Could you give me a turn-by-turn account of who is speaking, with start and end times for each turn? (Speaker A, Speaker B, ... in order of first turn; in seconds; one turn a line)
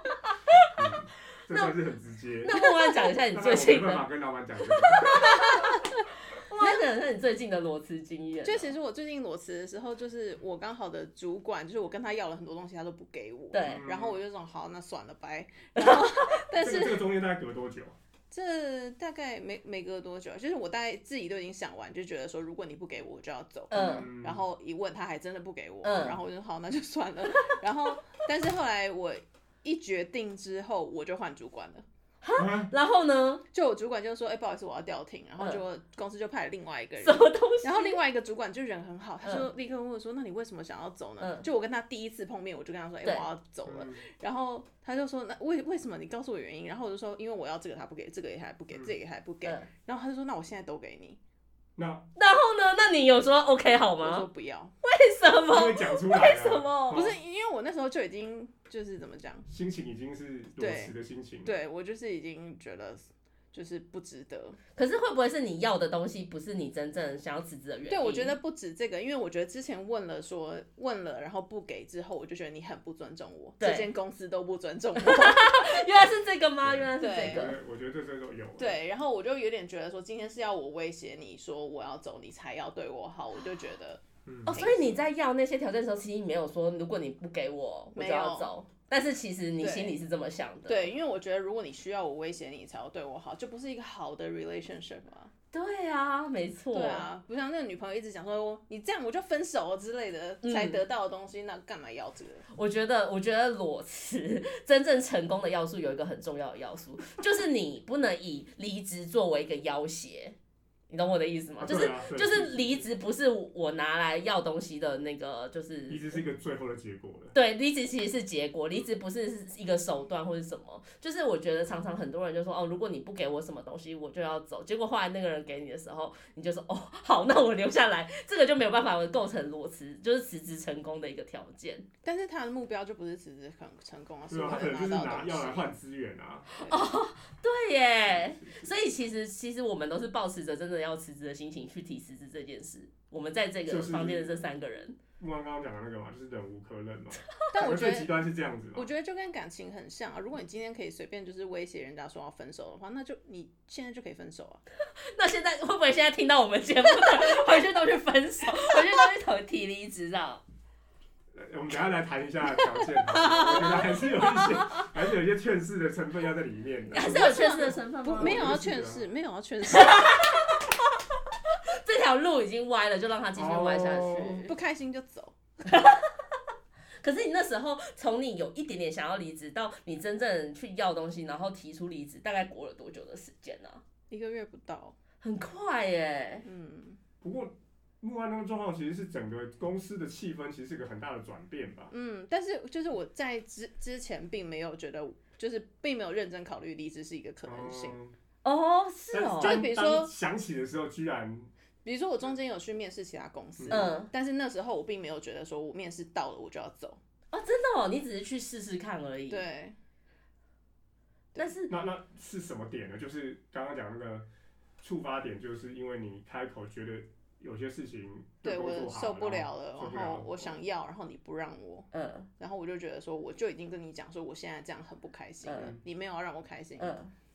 Speaker A: 0.8-2.6
Speaker B: 2.4-4.1
Speaker A: 3.3-5.2
Speaker B: 4.9-8.7
Speaker C: 5.5-5.8
Speaker C: 8.4-17.1
Speaker B: 13.5-13.8
Speaker A: 13.6-14.2
Speaker B: 15.8-16.0
Speaker A: 16.6-18.0
Speaker C: 18.3-31.9
Speaker B: 23.7-24.1
Speaker A: 23.8-24.4
Speaker B: 25.8-26.2
Speaker B: 32.2-33.4
Speaker A: 32.4-32.7
Speaker C: 33.5-51.2
Speaker B: 37.0-38.0
Speaker B: 41.2-41.5
Speaker A: 43.7-44.0
Speaker B: 49.4-49.7
Speaker A: 51.8-52.1
Speaker B: 52.2-54.3
Speaker C: 54.0-54.7
Speaker B: 54.8-57.1
Speaker A: 55.5-57.2
Speaker C: 56.9-59.5
Speaker A: 59.5-61.5
Speaker C: 60.6-60.9
Speaker C: 61.4-64.6
Speaker B: 64.8-68.4
Speaker C: 67.9-75.8
Speaker B: 73.6-73.9
Speaker B: 75.0-77.6
Speaker A: 76.6-78.8
Speaker C: 77.0-77.5
Speaker C: 78.6-85.0
Speaker A: 84.3-84.6
Speaker B: 84.5-90.9
Speaker C: 88.0-88.5
Speaker C: 89.6-90.0
Speaker C: 90.7-95.3
Speaker B: 95.5-97.1
Speaker C: 96.7-102.5
Speaker B: 100.4-100.8
Speaker B: 102.5-110.4
Speaker B: 110.9-116.2
Speaker A: 111.6-112.8
Speaker A: 115.9-117.4
Speaker B: 117.3-131.9
Speaker C: 132.0-135.7
Speaker A: 134.3-136.5
Speaker C: 136.6-136.8
Speaker B: 136.7-145.0
Speaker A: 138.1-138.7
Speaker A: 143.7-144.3
Speaker A: 145.2-148.9
Speaker C: 147.5-148.2
Speaker C: 148.8-154.6
Speaker B: 155.1-160.4
Speaker A: 161.3-169.1
Speaker B: 163.1-164.8
Speaker B: 166.9-168.5
Speaker C: 167.0-170.5
Speaker B: 169.7-170.6
Speaker B: 171.6-174.5
Speaker A: 173.3-174.4
Speaker C: 174.1-175.3
Speaker B: 175.7-176.1
Speaker B: 177.0-183.8
Speaker C: 184.1-185.0
Speaker B: 185.2-186.5
Speaker C: 186.4-187.0
Speaker A: 187.2-191.9
Speaker C: 191.9-198.0
Speaker A: 197.4-198.2
Speaker B: 198.4-199.6
Speaker A: 199.1-201.5
Speaker C: 199.4-200.1
Speaker C: 201.8-207.0
Speaker A: 203.6-203.9
Speaker B: 203.7-204.1
Speaker B: 207.3-209.5
Speaker C: 209.3-209.8
Speaker B: 211.4-211.7
Speaker A: 211.7-214.3
Speaker A: 214.8-220.5
Speaker C: 218.4-227.0
Speaker B: 221.9-222.3
Speaker B: 225.4-225.8
Speaker B: 226.8-227.1